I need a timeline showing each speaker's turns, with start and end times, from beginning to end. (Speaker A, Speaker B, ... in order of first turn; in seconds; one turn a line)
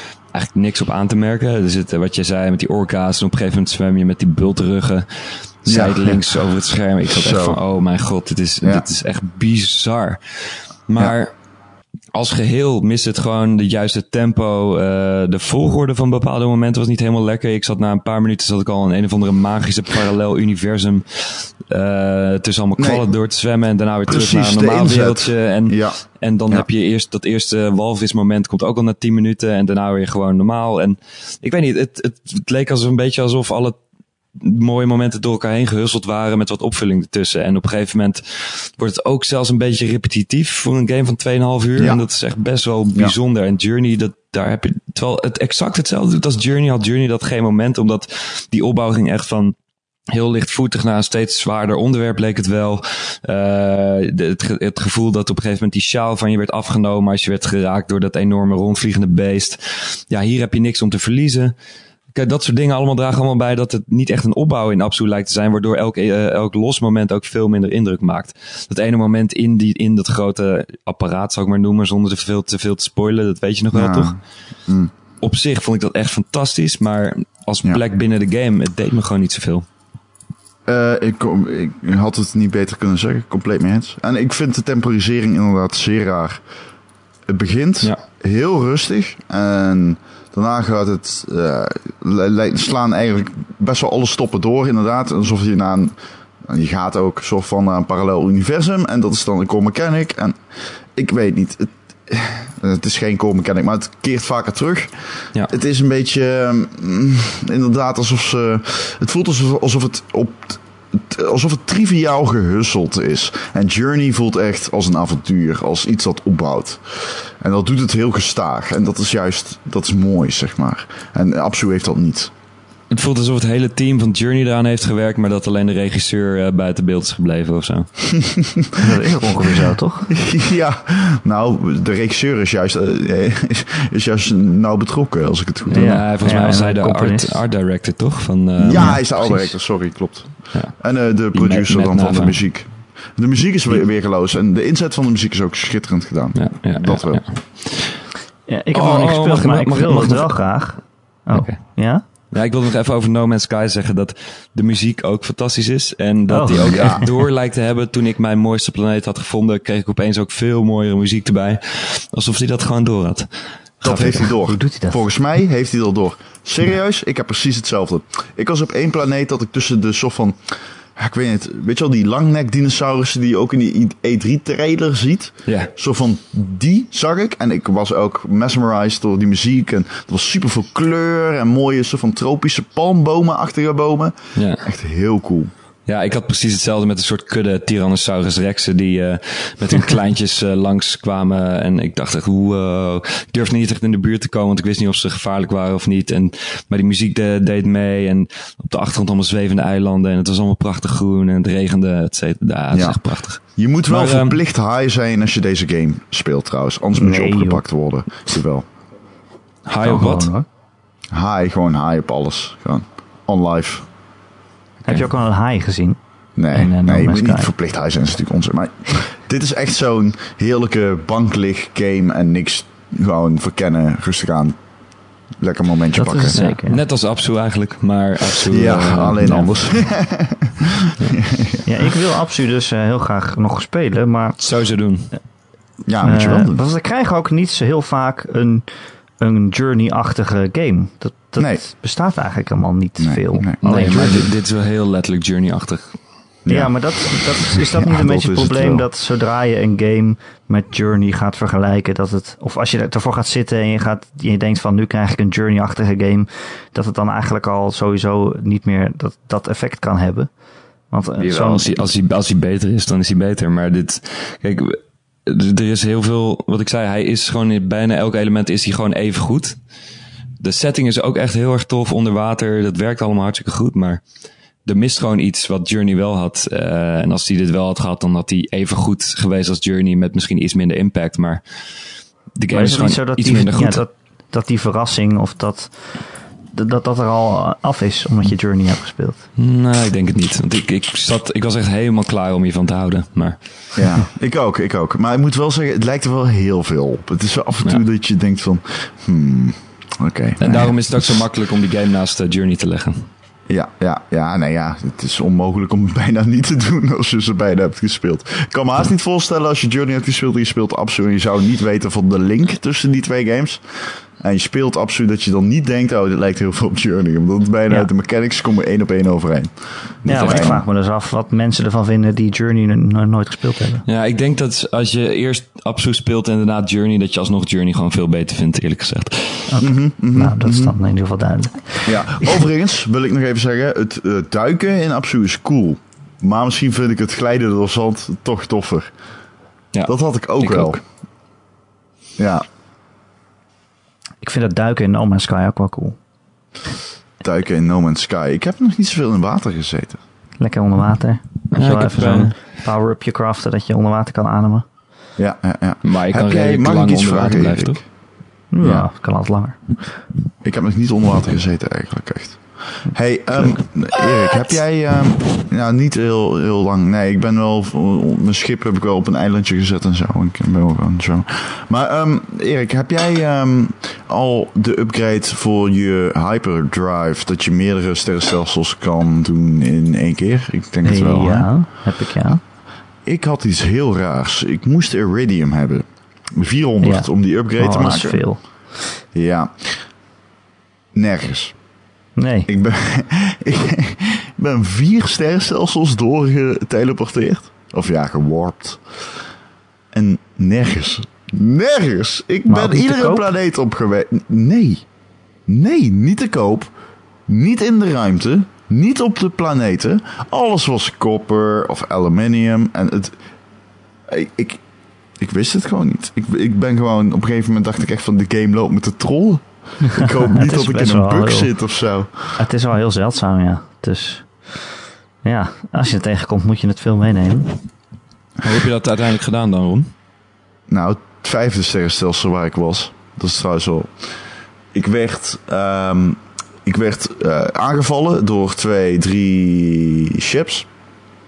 Speaker A: 0.3-11.3
Speaker B: 5.7-6.3
Speaker B: 7.1-7.6
Speaker B: 8.6-8.9
Speaker A: 12.1-33.8
Speaker B: 22.8-23.1
Speaker B: 24.1-26.0
Speaker A: 34.4-49.5
Speaker B: 41.8-42.0
Speaker A: 50.1-61.5
Speaker A: 62.1-74.1
Speaker B: 73.7-74.9
Speaker A: 75.2-79.7
Speaker B: 80.7-86.4
Speaker B: 87.3-105.0
Speaker B: 105.5-122.3
Speaker A: 122.9-128.1
Speaker B: 128.1-129.6
Speaker C: 128.8-130.1
Speaker B: 130.1-136.0
Speaker A: 135.7-139.0
Speaker C: 135.7-137.4
Speaker B: 138.6-147.2
Speaker C: 138.7-139.5
Speaker A: 141.3-142.4
Speaker A: 146.3-148.1
Speaker C: 148.5-152.1
Speaker A: 148.7-150.3
Speaker A: 151.3-163.3
Speaker C: 156.3-157.1
Speaker B: 156.6-157.0
Speaker A: 163.8-164.3
Speaker B: 163.8-185.5
Speaker C: 164.3-165.1
Speaker A: 175.5-175.7
Speaker A: 184.4-184.7
Speaker A: 185.9-204.4
Speaker B: 202.7-208.7
Speaker C: 206.9-207.7
Speaker A: 209.7-210.3
Speaker C: 209.8-210.5
Speaker B: 211.1-213.9
Speaker C: 214.9-216.0
Speaker B: 216.4-224.6
Speaker C: 216.5-217.5
Speaker B: 225.4-226.4
Speaker C: 225.9-226.8
Speaker A: 226.3-229.8
Speaker B: 228.3-231.7
Speaker C: 231.7-234.4
Speaker A: 234.4-235.1
Speaker B: 235.9-236.6
Speaker C: 236.0-244.3
Speaker B: 241.4-241.6
Speaker B: 243.0-244.2
Speaker A: 243.6-246.0
Speaker B: 246.4-248.8
Speaker C: 246.5-260.3
Speaker C: 260.9-261.8
Speaker A: 261.2-269.6
Speaker A: 270.4-274.0
Speaker A: 274.6-281.4
Speaker A: 282.4-283.8
Speaker C: 282.5-289.3
Speaker A: 289.4-293.8
Speaker B: 293.8-300.8
Speaker A: 300.4-303.1
Speaker B: 303.5-320.6
Speaker A: 320.1-320.5
Speaker C: 320.1-323.9
Speaker A: 323.9-329.5
Speaker C: 329.5-332.4
Speaker B: 329.6-330.8
Speaker B: 331.9-338.9
Speaker A: 339.7-340.8
Speaker B: 339.9-340.8
Speaker B: 342.2-342.4
Speaker C: 344.2-346.0
Speaker B: 347.2-350.0
Speaker C: 350.4-354.7
Speaker A: 351.5-352.4
Speaker B: 355.2-357.9
Speaker A: 355.8-357.8
Speaker C: 358.5-359.6
Speaker B: 358.6-358.9
Speaker B: 360.4-381.5
Speaker C: 363.4-363.6
Speaker C: 380.8-382.4
Speaker B: 383.1-388.2
Speaker C: 386.8-388.4
Speaker B: 389.1-389.9
Speaker B: 390.9-391.6
Speaker C: 392.2-392.5
Speaker B: 392.5-399.1
Speaker B: 399.9-404.9
Speaker C: 402.5-403.3
Speaker B: 405.5-406.7
Speaker B: 407.3-413.2
Speaker B: 414.1-414.6
Speaker B: 415.2-422.4
Speaker C: 419.9-421.5
Speaker C: 422.4-424.4
Speaker C: 425.2-427.6
Speaker A: 428.4-429.9
Speaker B: 430.7-434.1
Speaker B: 434.7-440.7